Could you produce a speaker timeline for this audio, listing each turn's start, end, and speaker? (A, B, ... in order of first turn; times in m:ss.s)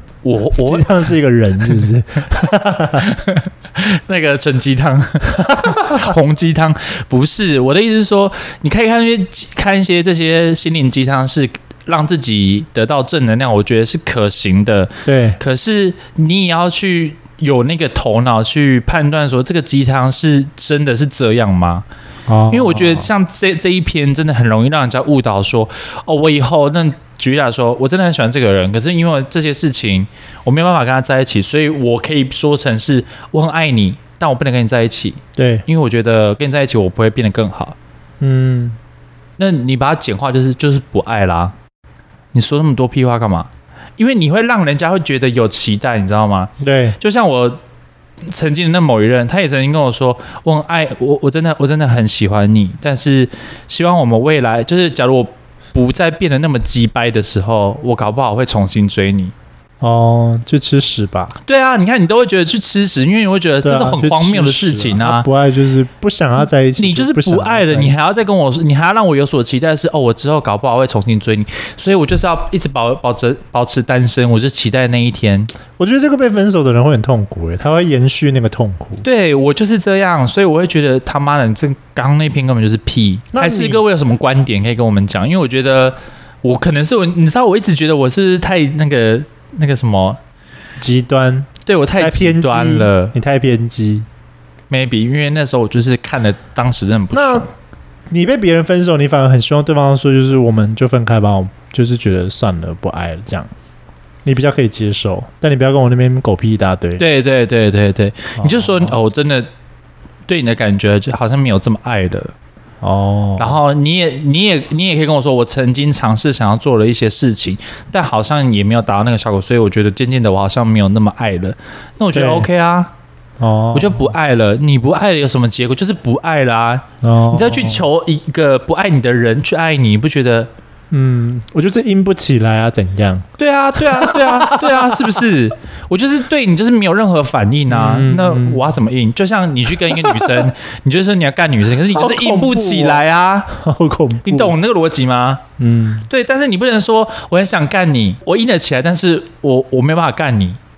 0:00.2-0:00.9 A
0:00.5-0:03.1 B
0:03.0-0:21.9 A
0:05.5-0:06.0 B
0:15.1-0:15.4 B
0:22.3-0:23.1 B
0:22.5-0:37.8 A
0:35.4-0:35.7 B
0:38.2-0:38.8 B
0:39.4-0:41.6 A
0:42.3-0:47.6 A
0:46.6-0:47.0 B
0:48.3-0:59.3 A
0:59.8-1:01.4 B
1:01.5-1:05.3 A
1:03.6-1:08.0 B
1:06.8-1:15.5 A
1:15.8-1:19.0 B
1:19.0-1:30.2 A
1:23.3-1:23.8 B
1:30.8-1:34.1 B
1:31.7-1:33.2 A
1:34.7-1:37.5 A
1:37.1-1:37.5 B
1:38.1-1:43.5 B
1:44.2-1:47.0 B
1:47.0-1:49.5 A
1:48.4-1:49.0 B
1:50.3-1:52.3 A
1:52.8-1:53.6 B
1:53.4-2:02.9 A
2:02.1-2:02.5 B
2:03.4-2:04.1 B
2:03.7-2:10.5 A
2:07.0-2:07.8 B
2:10.9-2:15.2 B
2:13.4-2:23.6 A
2:17.7-2:18.7 B
2:20.0-2:20.4 B
2:21.9-2:24.6 B
2:24.2-2:25.4 A
2:25.6-2:26.1 B
2:26.1-2:30.6 A